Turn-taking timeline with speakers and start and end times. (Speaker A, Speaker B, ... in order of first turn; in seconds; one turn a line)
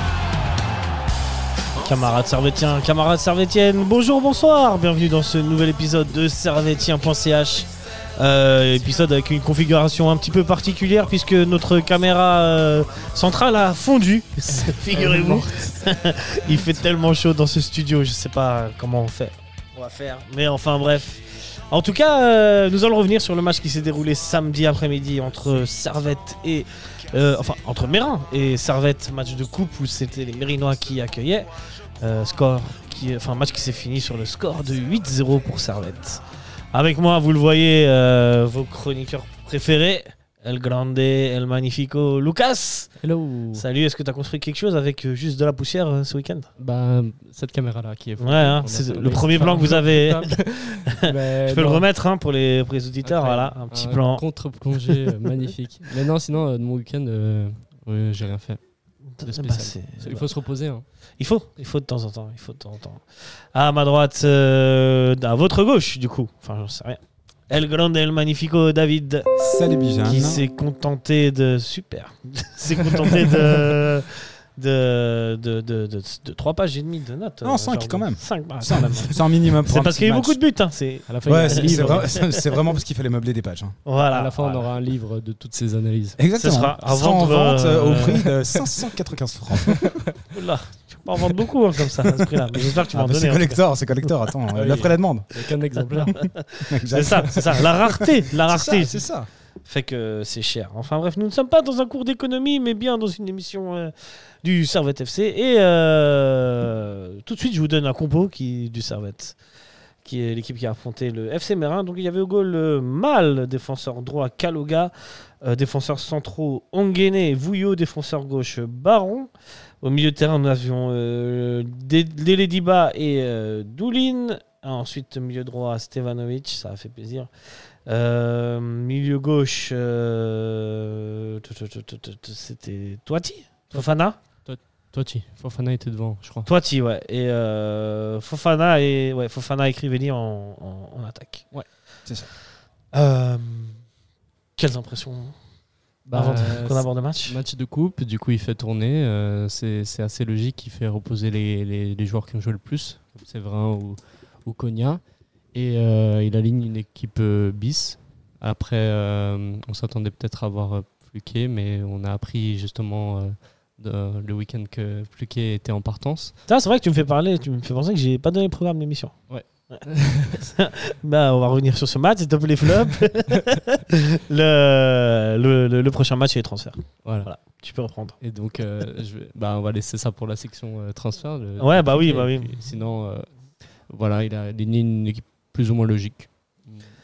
Speaker A: 1.8-43.0
Speaker B: 14.4-15.8
Speaker B: 16.5-16.8
Speaker B: 43.0-43.6
Speaker A: 43.5-46.5
Speaker B: 46.6-51.8
Speaker A: 48.2-50.4
Speaker A: 51.5-54.2
Speaker B: 53.0-58.6
Speaker A: 59.2-60.3
Speaker B: 59.2-60.8
Speaker A: 61.2-69.3
Speaker C: 69.4-70.4
Speaker A: 70.0-82.4
Speaker C: 77.4-80.4
Speaker B: 81.1-82.2
Speaker C: 81.2-83.8
Speaker A: 83.9-84.7
Speaker B: 84.1-86.2
Speaker C: 86.2-90.0
Speaker A: 86.4-88.3
Speaker A: 90.3-93.6
Speaker C: 92.8-95.3
Speaker B: 94.5-96.1
Speaker C: 96.7-99.3
Speaker A: 96.9-99.0
Speaker A: 99.6-109.4
Speaker A: 110.0-119.3
Speaker A: 119.8-127.3
Speaker A: 127.8-134.2
Speaker B: 134.4-136.5
Speaker A: 136.4-141.4
Speaker A: 142.9-143.8
Speaker A: 144.6-145.4
Speaker B: 146.1-155.0
Speaker A: 146.1-147.4
Speaker B: 155.5-166.4
Speaker A: 166.5-169.1
Speaker B: 169.3-170.4
Speaker A: 169.7-178.2
Speaker B: 178.2-183.3
Speaker A: 181.6-182.6
Speaker B: 183.9-186.8